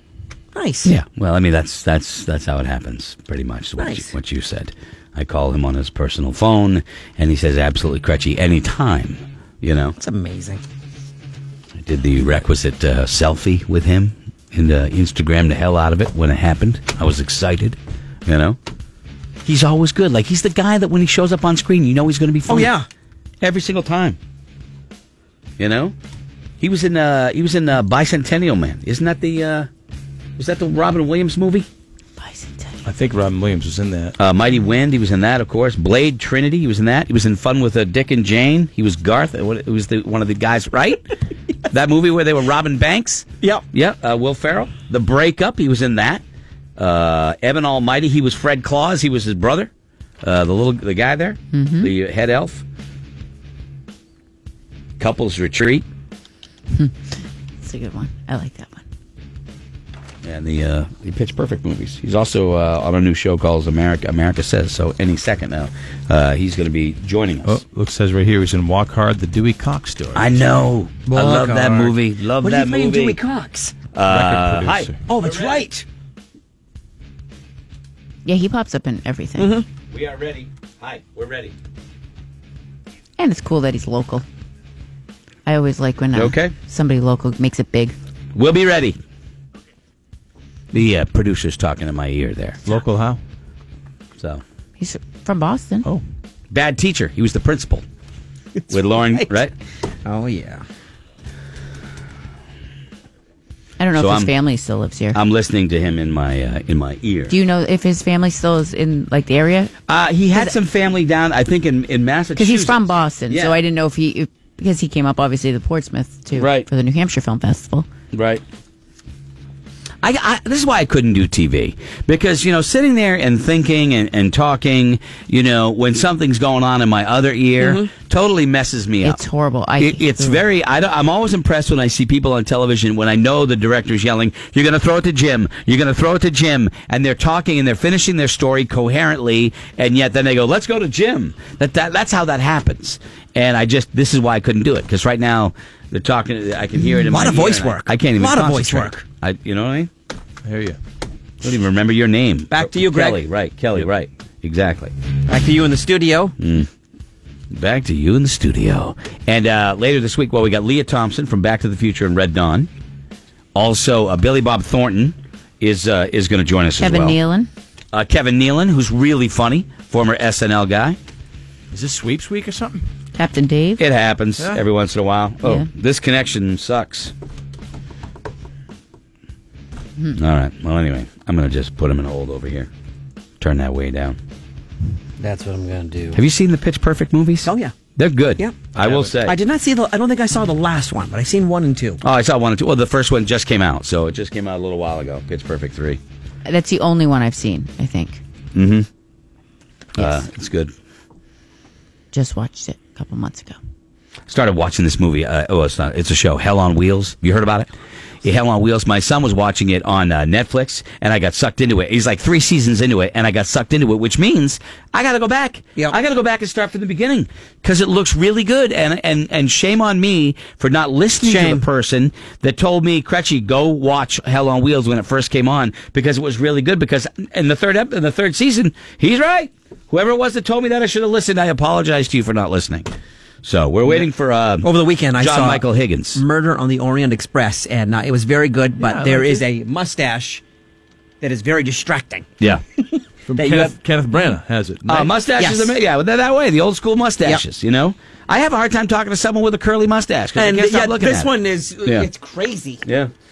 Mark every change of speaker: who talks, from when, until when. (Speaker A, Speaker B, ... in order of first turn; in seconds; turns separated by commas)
Speaker A: 0.5-0.9, Speaker B: 0.8-9.9, Speaker A: 3.8-4.1, Speaker A: 10.0-10.6, Speaker B: 11.8-18.6, Speaker B: 19.4-22.7, Speaker A: 22.5-22.9, Speaker B: 23.4-24.2, Speaker B: 25.6-25.9, Speaker B: 26.6-29.7, Speaker B: 30.4-31.7, Speaker C: 32.2-32.8, Speaker D: 32.8-34.1, Speaker B: 34.2-41.0, Speaker B: 41.7-46.2, Speaker B: 46.8-49.7, Speaker B: 50.2-52.6, Speaker C: 51.5-51.9, Speaker B: 55.0-55.8, Speaker C: 57.6-58.8, Speaker B: 60.2-67.6, Speaker D: 67.4-70.3, Speaker B: 70.1-73.2, Speaker A: 71.1-73.7, Speaker B: 73.9-75.6, Speaker D: 74.0-75.0, Speaker A: 75.1-75.8, Speaker C: 78.2-79.5, Speaker A: 79.4-79.6, Speaker B: 79.9-81.5, Speaker C: 83.2-84.2, Speaker C: 85.5-87.9, Speaker B: 86.1-86.5, Speaker B: 88.3-89.0, Speaker B: 90.7-92.6, Speaker D: 92.7-93.2, Speaker C: 94.8-95.9, Speaker B: 96.5-97.8, Speaker B: 98.7-99.5, Speaker A: 100.0-100.6, Speaker C: 103.8-105.2, Speaker B: 103.9-104.3, Speaker B: 105.1-107.3, Speaker C: 107.3-109.7, Speaker B: 109.9-113.6, Speaker C: 112.3-117.9, Speaker B: 116.3-116.7, Speaker B: 118.1-118.4, Speaker B: 120.0-129.2, Speaker A: 127.6-127.9, Speaker C: 129.0-130.4, Speaker B: 129.8-149.9, Speaker A: 147.1-149.0, Speaker D: 150.4-150.8, Speaker B: 151.4-154.9, Speaker A: 152.5-153.2, Speaker A: 155.3-156.3, Speaker B: 156.4-156.7, Speaker B: 157.5-162.7, Speaker B: 163.5-167.2, Speaker C: 166.8-167.5, Speaker B: 167.9-171.0, Speaker D: 171.7-172.9, Speaker C: 173.1-173.8, Speaker B: 173.8-177.1, Speaker B: 180.1-182.7, Speaker B: 183.4-184.2, Speaker A: 185.2-186.2, Speaker B: 186.1-189.4, Speaker A: 187.4-187.7, Speaker A: 188.4-188.6, Speaker D: 188.8-189.1, Speaker A: 189.2-192.0, Speaker B: 192.0-196.0, Speaker C: 196.4-198.2, Speaker B: 198.5-198.9, Speaker B: 200.0-200.7, Speaker C: 202.1-203.6, Speaker B: 204.3-207.7, Speaker B: 208.2-232.9, Speaker A: 221.2-221.6, Speaker B: 233.4-236.2, Speaker A: 234.6-240.4, Speaker D: 238.8-239.4, Speaker A: 241.2-242.2, Speaker A: 242.9-243.8, Speaker D: 243.2-245.1, Speaker B: 244.8-251.3, Speaker A: 245.3-245.8, Speaker A: 250.3-252.8, Speaker B: 252.8-253.1